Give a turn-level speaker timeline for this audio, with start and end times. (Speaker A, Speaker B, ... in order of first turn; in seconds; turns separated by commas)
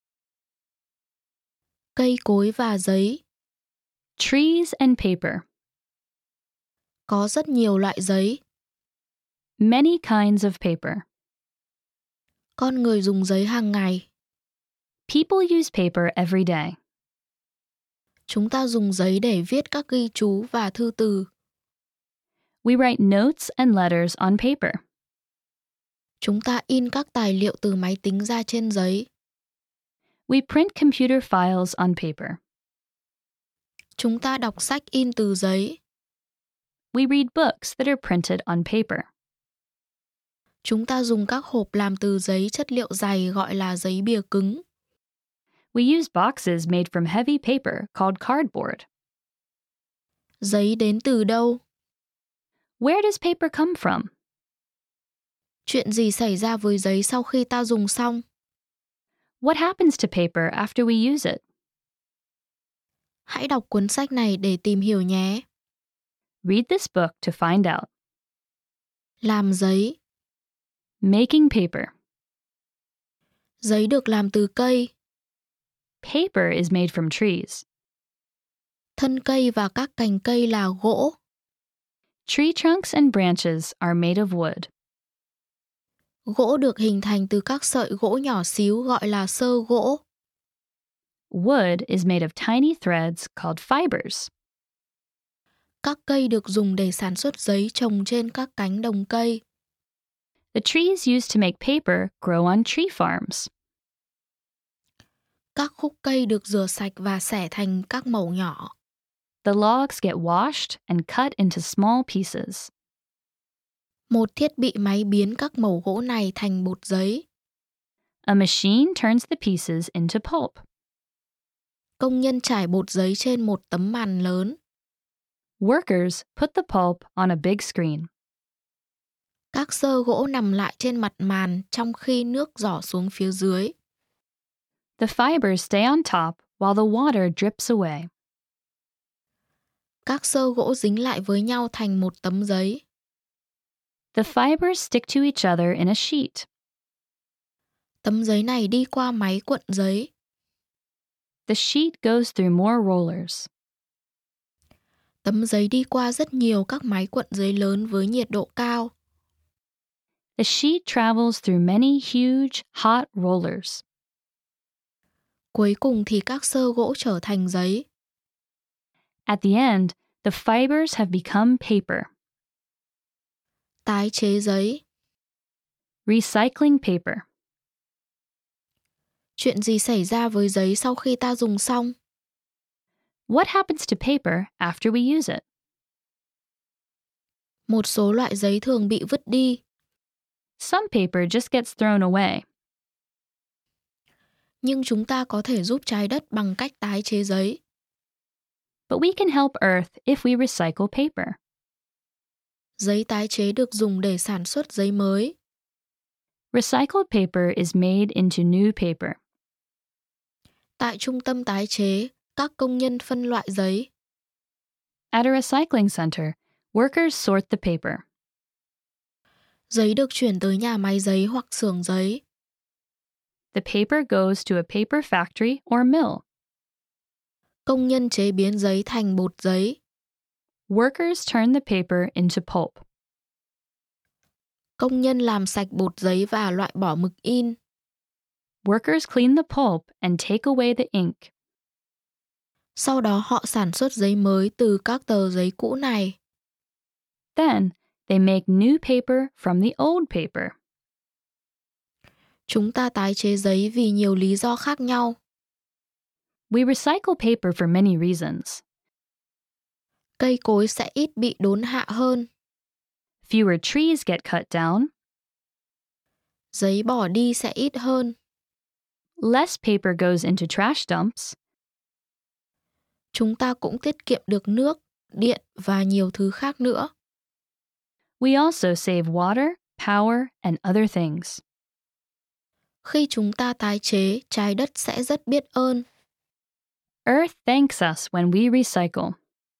Speaker A: 1.9-3.2, Speaker B: 4.2-5.4, Speaker A: 7.1-8.4, Speaker B: 9.6-11.0, Speaker A: 12.6-14.1, Speaker B: 15.1-16.8, Speaker A: 18.3-21.3, Speaker B: 22.6-24.8, Speaker A: 26.2-29.1, Speaker B: 30.3-32.4, Speaker A: 34.0-35.8, Speaker B: 36.9-39.1, Speaker A: 40.6-44.6, Speaker B: 45.7-48.9, Speaker A: 50.4-51.6, Speaker B: 52.8-54.1, Speaker A: 55.6-58.2, Speaker B: 59.4-61.4, Speaker A: 63.3-65.4, Speaker B: 66.4-67.9, Speaker A: 69.2-70.0, Speaker B: 71.0-71.9, Speaker A: 73.6-74.9, Speaker B: 76.0-77.6, Speaker A: 79.0-81.2, Speaker B: 82.2-84.7, Speaker A: 86.3-90.0, Speaker B: 91.3-94.3, Speaker A: 95.8-99.4, Speaker B: 100.5-103.5, Speaker A: 105.5-108.7, Speaker B: 109.4-112.7, Speaker A: 114.1-117.2, Speaker B: 118.2-120.6, Speaker A: 122.0-124.6, Speaker B: 125.6-128.1, Speaker A: 129.5-133.7, Speaker B: 135.0-138.1, Speaker A: 140.1-142.8, Speaker B: 144.1-146.5, Speaker A: 148.0-150.1, Speaker B: 151.5-153.5, Speaker A: 155.2-158.9, Speaker B: 160.4-163.8, Speaker A: 165.5-167.8, Speaker B: 169.3-172.1, Speaker A: 173.8-174.8, Speaker B: 176.1-177.2, Speaker A: 179.4-181.9, Speaker B: 183.3-185.4, Speaker A: 187.7-189.6, Speaker B: 190.6-192.4, Speaker A: 194.6-197.6, Speaker B: 198.9-201.4, Speaker A: 202.8-205.3, Speaker B: 206.5-209.2, Speaker A: 210.8-213.9, Speaker B: 215.1-218.0, Speaker A: 219.7-222.2, Speaker B: 223.5-226.2, Speaker A: 227.7-229.8, Speaker B: 230.7-232.8, Speaker A: 234.8-237.6, Speaker B: 238.6-241.3, Speaker A: 242.8-246.2, Speaker B: 247.3-250.5, Speaker A: 252.5-255.2, Speaker B: 256.5-258.6, Speaker A: 260.2-262.3, Speaker B: 263.2-264.9, Speaker A: 266.5-268.1, Speaker B: 269.2-271.4, Speaker A: 273.1-276.9, Speaker B: 278.2-281.4, Speaker A: 282.8-285.9, Speaker B: 287.1-289.2